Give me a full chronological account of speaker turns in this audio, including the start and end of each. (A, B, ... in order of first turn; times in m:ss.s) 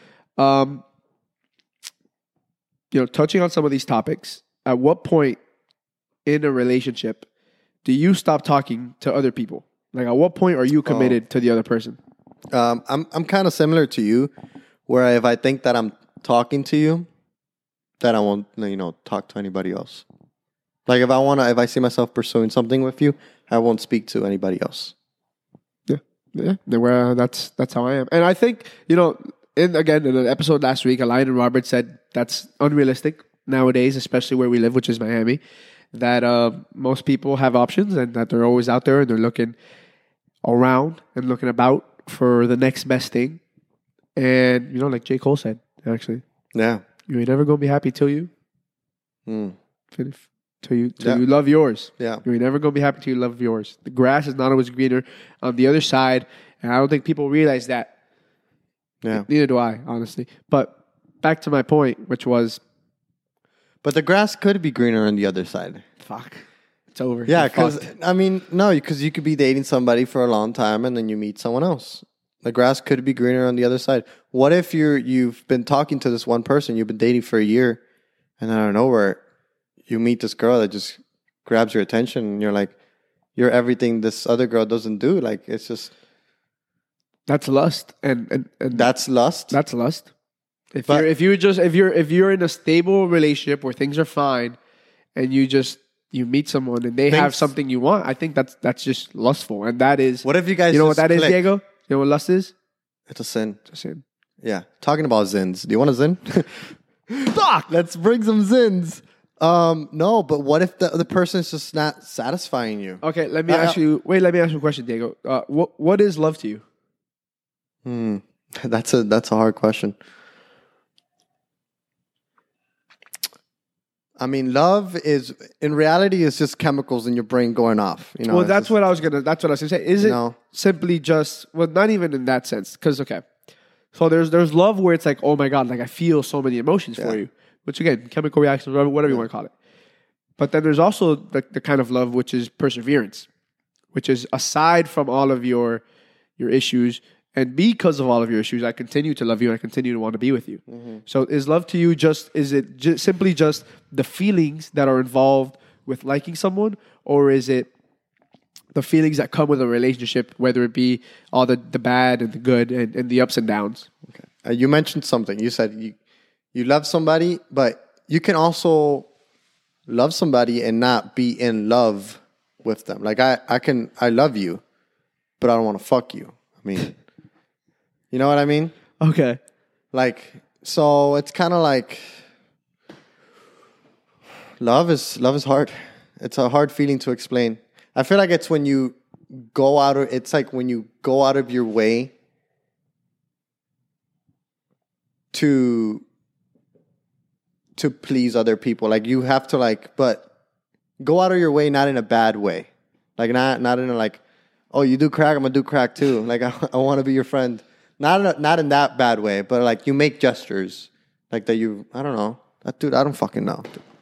0:00.4-0:00.8 A
0:02.9-0:05.4 A
0:06.3-0:07.3 A
0:07.8-0:12.0 A
0:10.9-0:11.2 B
0:12.5-0:14.3 B
0:14.9-0:17.1 B
0:18.0-0:20.0 B
0:20.9-0:24.9 B
0:25.9-0:35.4 A
0:35.9-0:39.6 A
0:40.4-0:43.4 A
0:44.2-0:46.2 A
0:46.5-0:46.8 B
0:47.1-0:48.3 A
0:49.3-0:49.6 B
0:49.9-0:57.9 A
0:59.1-1:02.6 A
1:03.8-1:05.8 B
1:06.0-1:06.4 A
1:06.9-1:07.9 A
1:07.3-1:17.8 B
1:18.4-1:19.2 B
1:19.9-1:22.7 B
1:23.4-1:25.9 B
1:27.3-1:28.9 A
1:28.7-1:29.6 B
1:29.5-1:30.1 A
1:30.7-1:34.6 A
1:35.2-1:42.5 A
1:37.1-1:37.5 B
1:40.2-1:41.4 B
1:43.1-1:43.6 B
1:43.7-1:44.0 A
1:44.4-1:53.8 B
1:47.2-1:47.6 A
1:53.0-1:56.6 A
1:57.8-2:00.0 B
2:04.2-2:08.7 B
2:08.3-2:13.2 A
2:10.0-2:10.4 B
2:13.9-2:19.5 A
2:20.4-2:23.3 A
2:23.9-2:25.8 A
2:26.4-2:37.7 A
2:30.7-2:31.0 B
2:38.8-2:43.9 A
2:44.1-2:46.0 B
2:46.5-2:49.1 B
2:49.9-2:54.6 B
2:55.4-2:56.9 B
2:58.1-2:58.7 B
2:59.0-2:59.4 A
2:59.9-3:02.2 B
3:04.6-3:12.1 B
3:15.3-3:16.0 B
3:17.8-3:20.3 B
3:21.0-3:24.2 B
3:24.7-3:33.8 B